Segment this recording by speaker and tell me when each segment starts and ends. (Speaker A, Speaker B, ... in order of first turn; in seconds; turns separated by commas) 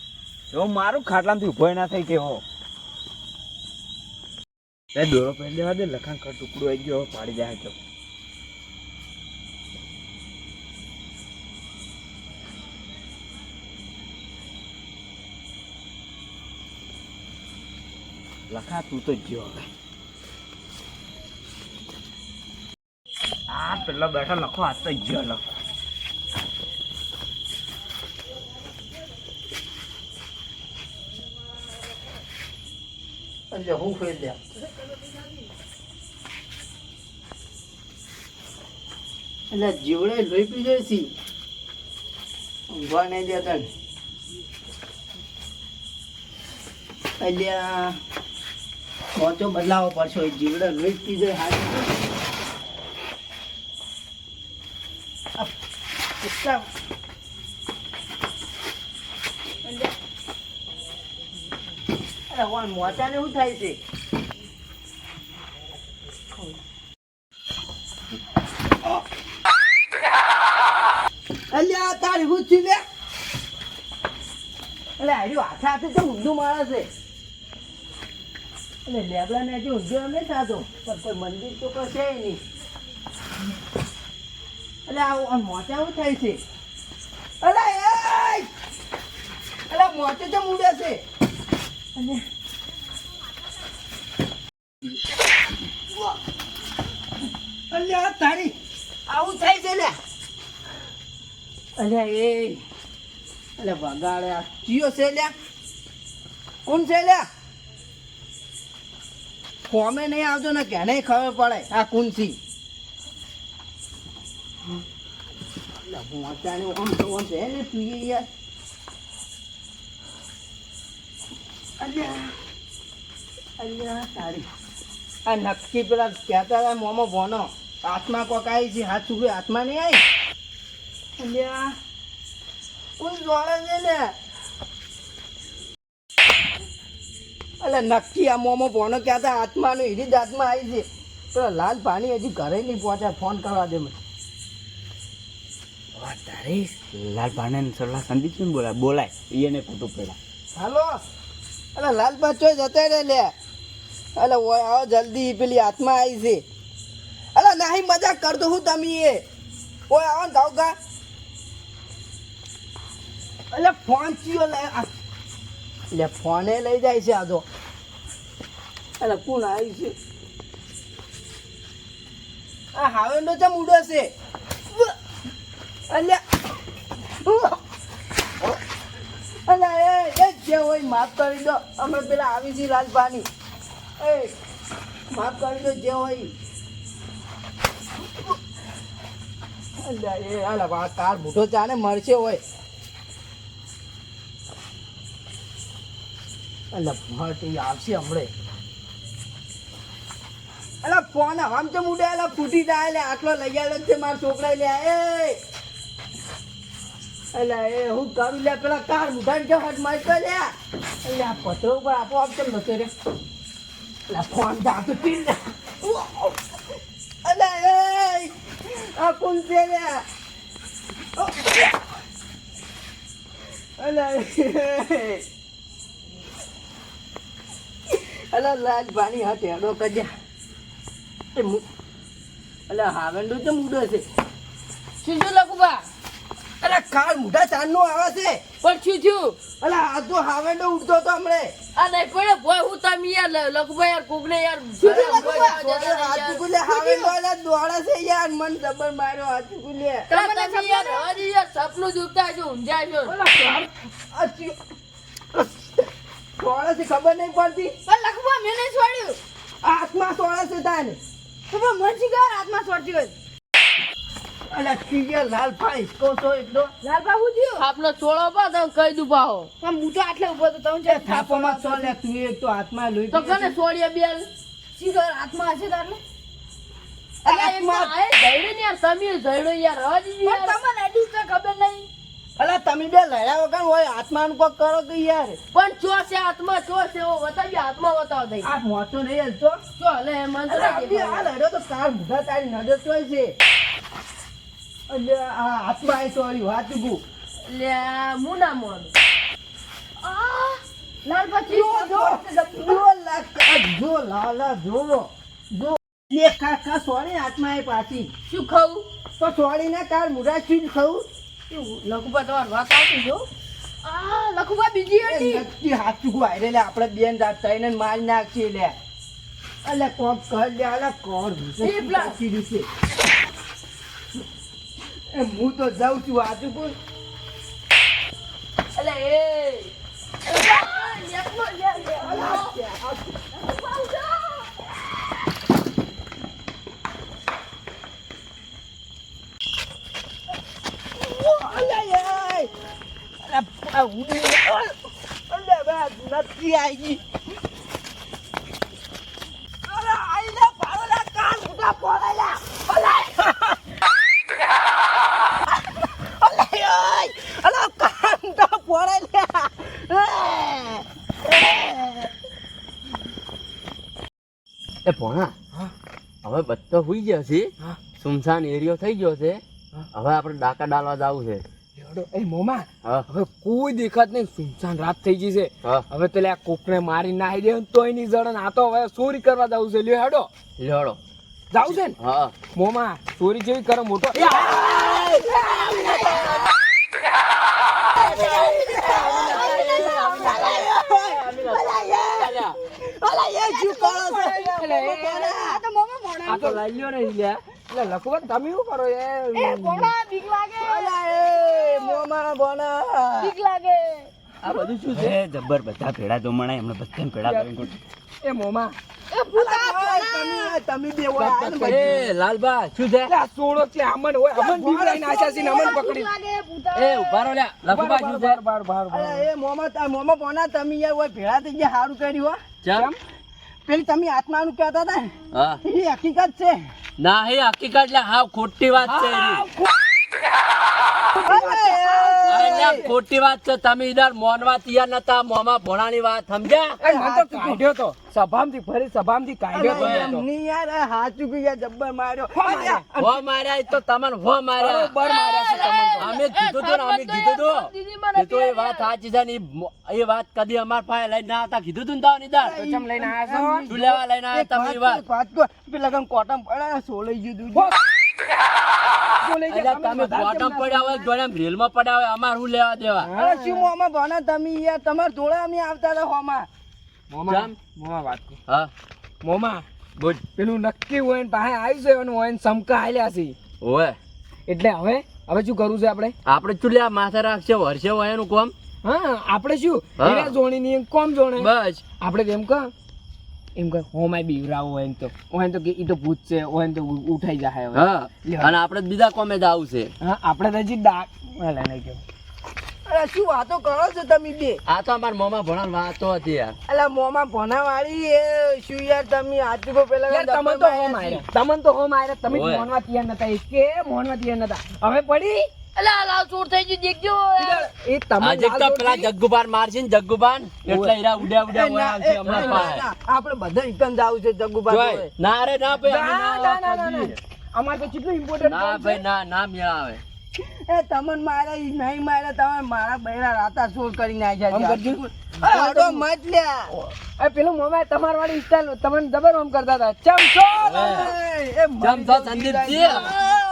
Speaker A: 0.5-2.4, Speaker A: 5.0-7.8, Speaker A: 18.5-19.7, Speaker A: 23.5-25.4, Speaker B: 33.5-34.4, Speaker B: 39.5-41.1, Speaker B: 42.7-43.7, Speaker B: 47.2-48.0, Speaker B: 49.1-51.9, Speaker B: 56.2-56.6, Speaker B: 62.3-63.8, Speaker B: 71.5-72.8, Speaker B: 75.0-76.9, Speaker B: 78.8-82.4, Speaker B: 84.9-86.4, Speaker B: 87.4-88.5, Speaker B: 89.7-91.0, Speaker B: 92.0-92.2, Speaker B: 97.7-98.5, Speaker B: 99.1-100.0, Speaker B: 101.8-102.6, Speaker B: 103.6-105.3, Speaker B: 106.7-107.3, Speaker B: 109.7-112.4, Speaker B: 115.8-118.3, Speaker B: 121.8-122.3, Speaker B: 123.6-124.5, Speaker B: 125.3-130.0, Speaker B: 131.2-131.7, Speaker B: 133.0-134.1, Speaker B: 137.6-144.0, Speaker A: 146.8-150.2, Speaker B: 150.6-151.0, Speaker B: 151.8-153.3, Speaker B: 154.2-156.4, Speaker B: 157.3-159.2, Speaker B: 159.9-160.8, Speaker B: 163.5-164.9, Speaker B: 165.9-167.4, Speaker B: 169.0-169.9, Speaker B: 172.7-174.1, Speaker B: 175.9-176.2, Speaker B: 177.2-177.6, Speaker B: 179.5-183.3, Speaker B: 184.0-184.3, Speaker B: 185.1-186.3, Speaker B: 189.8-192.4, Speaker B: 196.7-198.3, Speaker B: 200.8-205.4, Speaker B: 207.3-210.5, Speaker B: 211.1-212.9, Speaker B: 214.1-216.4, Speaker B: 217.2-220.0, Speaker B: 221.2-221.7, Speaker B: 223.8-225.2, Speaker B: 227.9-230.1, Speaker B: 231.3-231.6, Speaker B: 232.7-234.1, Speaker C: 235.0-235.8, Speaker B: 236.6-238.4, Speaker C: 238.6-239.4, Speaker B: 239.6-241.5, Speaker C: 241.8-247.1, Speaker B: 244.8-250.3, Speaker C: 250.1-253.2, Speaker D: 253.1-253.7, Speaker B: 254.1-254.6, Speaker B: 255.3-255.8, Speaker B: 256.4-257.8, Speaker C: 257.9-259.2, Speaker B: 259.6-261.0, Speaker C: 261.5-263.1, Speaker B: 264.5-266.7, Speaker C: 266.8-271.8, Speaker B: 270.9-273.6, Speaker C: 273.1-276.0, Speaker B: 277.2-277.9, Speaker C: 277.3-281.9, Speaker B: 282.4-285.4, Speaker C: 285.5-288.5, Speaker B: 288.4-289.6, Speaker C: 289.8-291.3, Speaker B: 290.5-293.4, Speaker B: 294.9-297.0, Speaker C: 297.5-298.9, Speaker C: 300.0-302.8, Speaker B: 301.5-308.1, Speaker C: 308.3-308.9, Speaker B: 309.2-311.1, Speaker C: 311.5-313.3, Speaker C: 313.8-315.5, Speaker B: 315.0-318.7, Speaker B: 319.6-322.7, Speaker C: 321.6-322.2, Speaker B: 325.1-326.8, Speaker C: 328.8-329.7, Speaker C: 330.2-332.6, Speaker B: 332.0-333.2, Speaker C: 333.3-334.5, Speaker B: 341.0-342.5, Speaker B: 343.2-344.7, Speaker B: 345.3-347.0, Speaker B: 349.7-353.6, Speaker B: 355.7-362.1, Speaker E: 364.9-365.3, Speaker E: 366.2-369.4, Speaker E: 369.9-371.4, Speaker D: 371.8-380.3, Speaker E: 380.6-381.0, Speaker D: 381.5-382.0, Speaker E: 381.6-382.3, Speaker D: 382.5-384.7, Speaker B: 384.1-386.4, Speaker D: 385.6-385.9, Speaker B: 388.0-395.6, Speaker E: 388.2-388.6, Speaker D: 388.5-390.0, Speaker C: 389.2-390.4, Speaker E: 389.2-392.6, Speaker C: 393.4-394.5, Speaker D: 394.5-395.2, Speaker C: 395.5-396.3, Speaker D: 396.3-396.6, Speaker E: 396.4-397.4, Speaker D: 397.7-399.9, Speaker C: 399.4-402.0, Speaker B: 400.6-403.3, Speaker C: 403.2-404.1, Speaker E: 404.4-405.2, Speaker A: 404.9-407.8, Speaker D: 407.2-407.5, Speaker D: 408.2-408.7, Speaker C: 409.1-410.5, Speaker B: 409.3-412.1, Speaker E: 411.2-413.1, Speaker D: 413.1-416.1, Speaker B: 414.4-415.8, Speaker C: 415.4-417.3, Speaker E: 416.7-418.4, Speaker D: 417.7-419.3, Speaker B: 418.9-422.4, Speaker E: 422.6-422.9, Speaker B: 423.7-426.7, Speaker E: 425.3-425.6, Speaker E: 427.0-429.5, Speaker D: 428.8-429.7, Speaker D: 431.1-432.8, Speaker B: 431.2-432.9, Speaker E: 432.3-436.8, Speaker B: 436.8-437.6, Speaker D: 436.8-440.3, Speaker B: 439.5-443.2, Speaker E: 439.7-440.1, Speaker D: 442.4-442.8, Speaker E: 443.0-444.9, Speaker D: 444.6-446.1, Speaker C: 445.0-448.9, Speaker E: 446.0-452.5, Speaker B: 452.4-457.7, Speaker D: 452.5-453.7, Speaker E: 453.7-455.0, Speaker D: 459.2-461.1, Speaker E: 459.5-463.1, Speaker D: 463.0-463.7, Speaker B: 463.2-466.5, Speaker D: 467.1-468.4, Speaker E: 467.3-467.5, Speaker D: 469.2-469.6, Speaker E: 470.0-470.2, Speaker D: 470.4-473.4, Speaker E: 473.6-474.0, Speaker D: 474.5-476.1, Speaker E: 476.3-478.5, Speaker D: 478.8-482.7, Speaker E: 480.0-480.4, Speaker E: 481.4-481.9, Speaker D: 483.6-488.5, Speaker E: 487.7-489.9, Speaker D: 490.0-492.0, Speaker B: 492.9-494.6, Speaker E: 494.7-496.6, Speaker B: 496.7-501.2, Speaker D: 500.1-505.5, Speaker E: 502.3-502.7, Speaker C: 505.8-507.7, Speaker D: 507.4-509.1, Speaker E: 508.2-512.9, Speaker D: 510.7-510.9, Speaker B: 511.5-515.1, Speaker D: 512.3-512.7, Speaker E: 514.7-517.2, Speaker D: 515.8-519.0, Speaker E: 518.4-520.0, Speaker B: 520.5-526.7, Speaker D: 524.5-526.0, Speaker D: 527.0-531.0, Speaker E: 530.6-531.1, Speaker B: 530.7-533.2, Speaker E: 531.8-533.1